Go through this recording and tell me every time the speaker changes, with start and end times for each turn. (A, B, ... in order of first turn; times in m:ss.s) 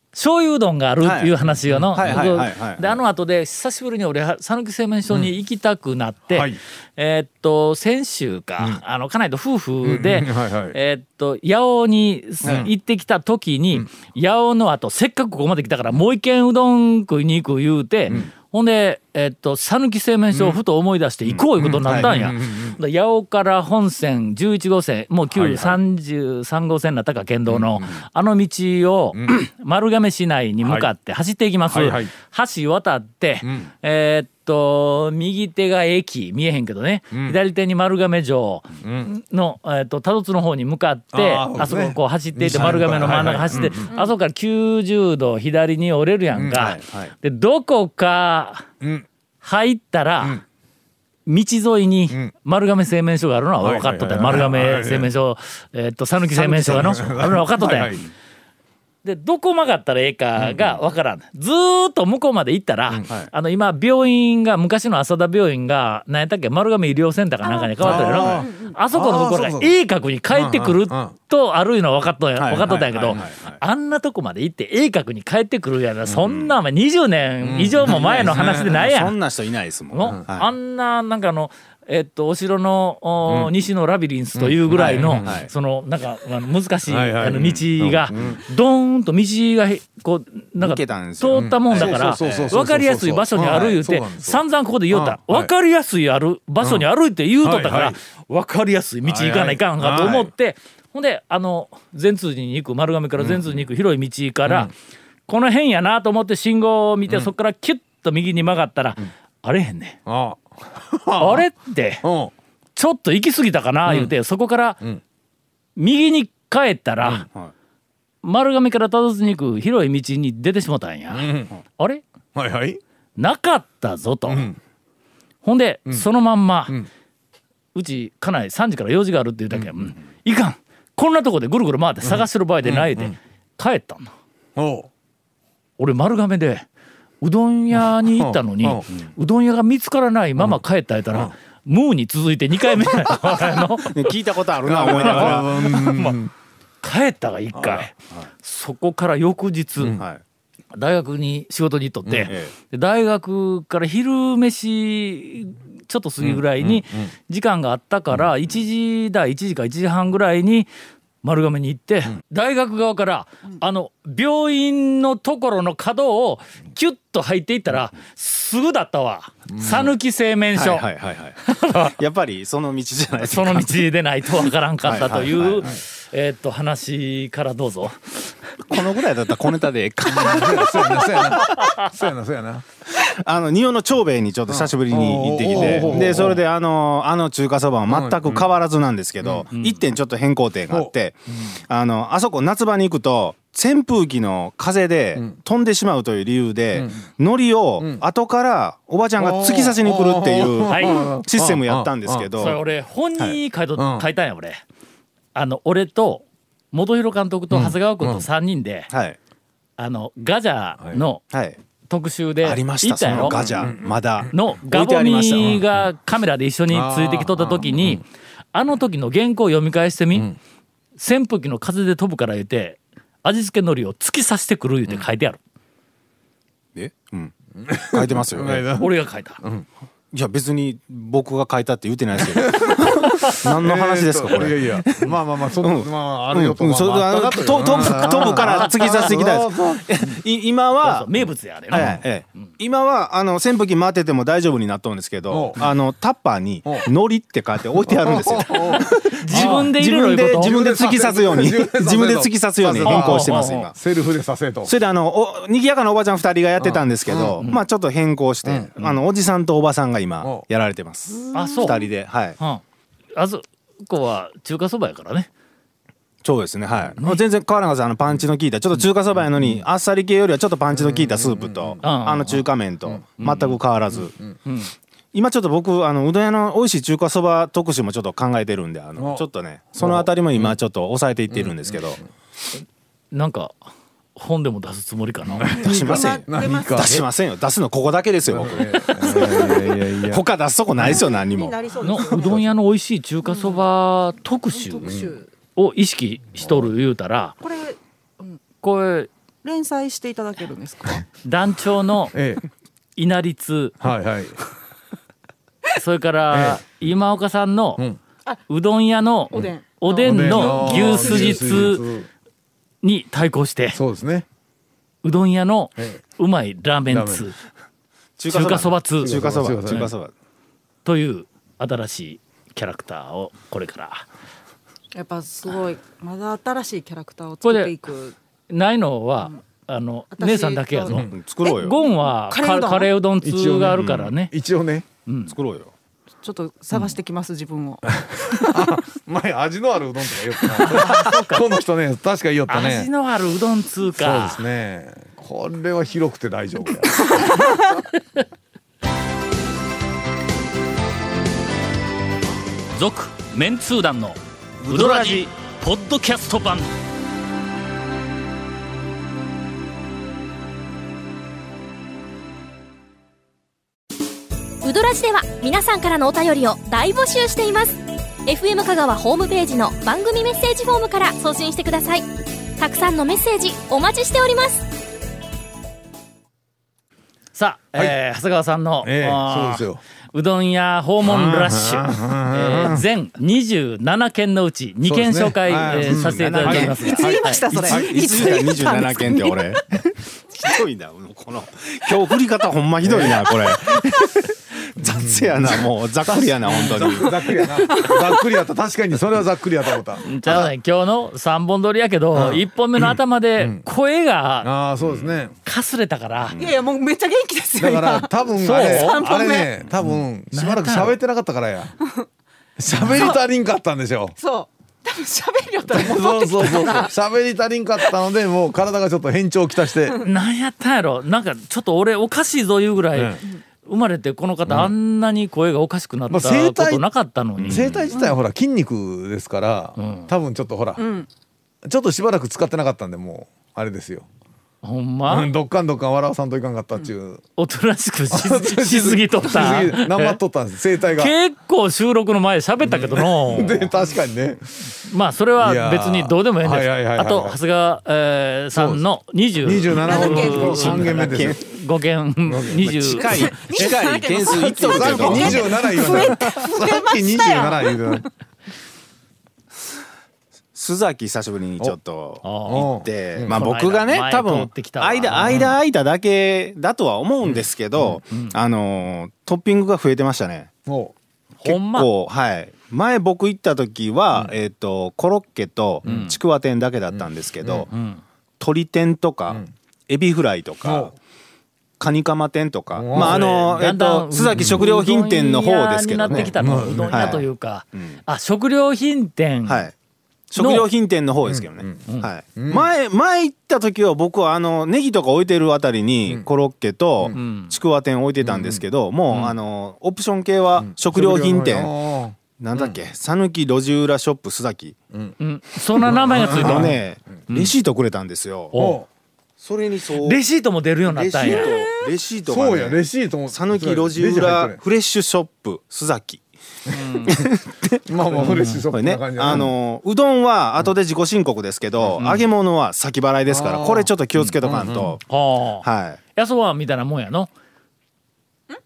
0:00.1-0:48.7 A
0:01.0-0:01.3 B
0:01.6-0:02.3 C
0:01.9-0:02.9 B
0:06.3-0:06.6 C
0:09.8-0:10.8 C
0:12.4-0:12.7 C
0:20.3-0:20.6 C
0:21.4-0:22.8 C
0:25.3-0:25.8 C
0:27.5-0:27.9 C
0:29.1-0:29.4 C
0:30.6-0:30.9 C
0:31.7-0:32.1 C
0:33.4-0:33.7 C
0:37.1-0:37.4 C
0:38.8-0:39.1 C
0:41.1-0:43.9 C
0:46.3-0:46.7 C
0:46.5-0:47.1 B
0:48.8-0:49.1 C
0:49.4-0:50.4 A
0:51.2-0:57.9 A
0:53.6-0:55.1 C
0:56.2-0:58.1 C
0:59.0-1:19.1 A
1:00.4-1:00.7 C
1:07.4-1:08.8 D
1:07.8-1:09.7 C
1:10.3-1:11.1 C
1:12.4-1:13.6 B
1:12.7-1:13.3 C
1:16.3-1:16.5 B
1:17.4-1:18.8 C
1:18.1-1:20.5 B
1:19.9-1:44.7 A
1:23.2-1:23.5 C
1:24.3-1:25.4 C
1:24.7-1:25.5 B
1:26.9-1:28.4 C
1:30.6-1:32.6 B
1:31.3-1:35.5 C
1:36.6-1:36.8 C
1:37.4-1:38.0 C
1:39.0-1:40.3 C
1:40.0-1:40.2 B
1:43.2-1:43.6 C
1:44.4-1:44.7 C
1:45.3-1:50.0 A
1:50.0-1:51.4 C
1:51.2-1:52.0 A
1:52.0-1:52.3 C
1:52.8-1:54.8 A
1:53.8-1:54.1 C
1:55.8-1:57.2 A
1:57.0-1:57.3 C
1:58.2-2:02.0 A
2:01.1-2:01.5 C
2:02.3-2:02.8 C
2:03.2-2:04.5 A
2:04.3-2:04.6 C
2:05.4-2:06.8 A
2:07.7-2:14.1 A
2:12.0-2:13.2 C
2:14.6-2:14.9 C
2:15.8-2:16.6 A
2:17.2-2:24.1 A
2:17.7-2:18.9 C
2:22.7-2:23.4 C
2:23.9-2:25.8 B
2:24.6-2:26.3 C
2:24.8-2:26.2 A
2:26.8-2:30.0 A
2:27.5-2:27.9 C
2:29.8-2:30.0 C
2:30.0-2:30.2 B
2:30.7-2:40.7 A
2:32.0-2:32.3 C
2:36.2-2:37.1 C
2:41.2-2:50.8 A
2:49.5-2:49.9 C
2:50.5-2:53.8 B
2:51.4-2:52.0 A
2:53.2-2:58.3 A
2:54.8-2:55.7 B
2:58.7-3:01.7 B
3:00.0-3:02.6 C
3:02.9-3:22.6 B
3:04.5-3:06.4 C
3:05.6-3:06.0 A
3:07.9-3:08.5 C
3:09.5-3:09.8 A
3:17.8-3:18.0 C
3:19.2-3:22.3 C
3:20.7-3:21.1 A
3:22.4-3:24.6 A
3:23.8-3:24.1 C
3:25.3-3:28.9 A
3:27.5-3:28.3 C
3:28.9-3:29.2 B
3:29.8-3:31.2 A
3:30.8-3:31.0 C
3:31.3-3:31.6 B
3:31.9-3:33.4 A
3:32.4-3:35.6 B
3:33.1-3:34.3 C
3:34.3-3:40.3 A
3:36.7-3:38.0 C
3:41.0-3:45.4 A
3:46.8-3:47.3 B
3:47.6-3:49.7 C
3:47.9-3:48.6 B
3:48.8-3:49.4 A
3:50.1-4:01.1 B
3:52.2-3:59.9 C
3:58.2-3:58.9 A
4:00.8-4:02.0 A
4:01.7-4:13.7 B
4:01.7-4:02.0 C
4:05.3-4:05.6 C
4:07.8-4:09.7 C
4:09.2-4:10.5 A
4:10.3-4:14.7 C
4:12.8-4:13.7 A
4:14.6-4:22.4 B
4:16.6-4:17.4 C
4:18.4-4:18.7 C
4:20.2-4:20.4 C
4:21.3-4:21.8 A
4:23.1-4:25.3 A
4:26.2-4:34.1 B
4:30.7-4:31.8 C
4:31.8-4:32.4 A
4:33.2-4:33.6 A
4:33.9-4:34.3 C
4:34.4-4:34.7 A
4:35.1-4:42.0 B
4:39.0-4:40.6 C
4:41.3-4:42.0 C
4:43.1-4:43.6 A
4:44.2-4:45.6 A
4:45.3-4:47.0 C
4:45.5-4:47.0 D
4:45.6-4:49.6 B
4:48.2-4:50.2 C
4:49.0-4:49.6 D
4:50.1-4:51.6 B
4:50.8-4:51.0 C
4:50.8-4:52.4 D
4:51.8-4:54.9 A
4:52.2-4:52.4 C
4:53.2-4:53.6 D
4:54.5-4:55.3 D
4:54.8-4:55.2 C
4:55.5-4:57.4 A
4:56.4-4:56.7 C
4:57.4-4:58.4 D
4:58.6-4:59.1 A
4:59.4-5:01.1 D
5:01.2-5:02.1 A
5:02.1-5:02.4 C
5:03.0-5:03.8 A
5:03.8-5:04.4 C
5:05.8-5:07.8 A
5:06.3-5:06.6 C
5:08.5-5:11.8 A
5:09.3-5:11.7 D
5:10.0-5:12.1 C
5:12.8-5:13.8 A
5:13.7-5:14.2 C
5:15.0-5:17.4 A
5:16.9-5:17.3 C
5:18.2-5:20.1 B
5:18.3-5:19.9 A
5:19.0-5:19.9 C
5:20.8-5:24.0 A
5:24.9-5:28.1 D
5:27.4-5:27.7 A
5:28.5-5:34.3 A
5:30.1-5:32.9 D
5:30.9-5:31.1 C
5:31.1-5:31.8 B
5:33.2-5:34.8 C
5:35.1-5:35.3 A
5:35.3-5:35.7 B
5:36.2-5:38.8 D
5:37.9-5:42.9 C
5:40.7-5:41.4 A
5:40.7-5:41.2 D
5:42.5-5:44.4 A
5:43.9-5:47.4 C
5:52.7-5:56.7 A
5:54.6-5:55.3 B
6:04.6-6:12.0 E
6:12.6-6:14.6 E
6:17.3-6:27.5 A
6:18.8-6:19.8 C
6:21.0-6:22.8 C
6:24.8-6:28.4 C
6:25.9-6:27.0 B
6:26.9-6:29.8 D
6:27.5-6:29.8 B
6:30.3-6:37.2 B
6:32.8-6:33.3 C
6:34.8-6:40.5 C
6:37.0-6:38.3 D
6:40.0-6:44.5 A
6:42.1-6:43.6 C
6:44.4-6:45.3 C
6:45.4-6:46.3 A
6:46.4-6:49.5 D
6:47.6-6:51.7 C
6:48.4-6:49.0 A
6:50.3-6:51.0 A
6:52.6-6:54.2 C
6:52.8-6:53.2 D
6:54.2-6:56.9 D
6:55.7-7:00.0 C
7:00.0-7:07.8 A
7:02.9-7:03.2 C
7:04.4-7:04.7 C
7:06.1-7:06.8 C
7:07.4-7:10.8 C
7:07.4-7:07.7 B
7:09.8-7:10.1 A
7:10.8-7:11.1 D
7:11.6-7:14.0 C
7:14.6-7:15.3 A
7:15.1-7:17.2 C
7:17.4-7:20.2 A
7:18.1-7:21.1 C
7:21.0-7:23.7 A
7:22.6-7:24.5 C
7:24.8-7:33.4 A
7:25.4-7:27.4 C
7:28.5-7:28.8 C
7:29.4-7:31.4 C
7:29.7-7:30.8 D
7:30.3-7:31.4 B
7:32.2-7:32.7 C
7:32.6-7:36.1 B
7:33.1-7:38.0 D
7:34.5-7:38.1 C
7:40.5-7:50.5 B
7:42.2-7:42.7 A
7:42.4-7:43.4 C
7:43.2-7:45.5 A
7:45.1-7:45.5 C
7:47.3-7:48.0 C
7:48.1-7:48.3 A
7:50.6-7:50.9 C
7:51.4-7:51.9 A
7:51.4-7:57.7 B
7:55.8-7:56.2 C
7:55.8-7:56.1 A
7:56.9-7:57.7 C
7:57.7-7:58.0 A
7:58.4-8:00.9 B
8:00.6-8:00.9 C
8:01.8-8:06.3 B
8:02.7-8:03.2 C
8:02.9-8:09.7 A
8:04.3-8:04.6 C
8:06.1-8:07.2 C
8:06.9-8:07.2 B
8:07.7-8:08.0 B
8:09.4-8:09.7 B
8:10.3-8:21.7 B
8:10.4-8:10.7 A
8:11.2-8:11.8 C
8:12.3-8:12.7 C
8:17.1-8:17.6 A
8:18.2-8:18.6 C
8:20.6-8:22.8 C
8:22.4-8:24.8 B
8:25.2-8:26.8 A
8:25.8-8:26.8 C
8:26.2-8:28.5 B
8:27.3-8:27.5 A
8:28.5-8:28.8 A
8:28.5-8:28.9 C
8:29.4-8:30.2 B
8:30.0-8:31.5 A
8:30.9-8:36.2 B
8:32.2-8:34.6 C
8:36.7-8:37.2 A
8:36.7-8:37.3 C
8:37.0-8:45.0 B
8:37.8-8:39.5 C
8:38.2-8:38.6 A
8:42.0-8:42.2 A
8:43.3-8:43.9 C
8:44.4-8:45.0 C
8:45.1-8:45.6 A
8:45.6-8:46.0 B
8:46.2-8:47.3 A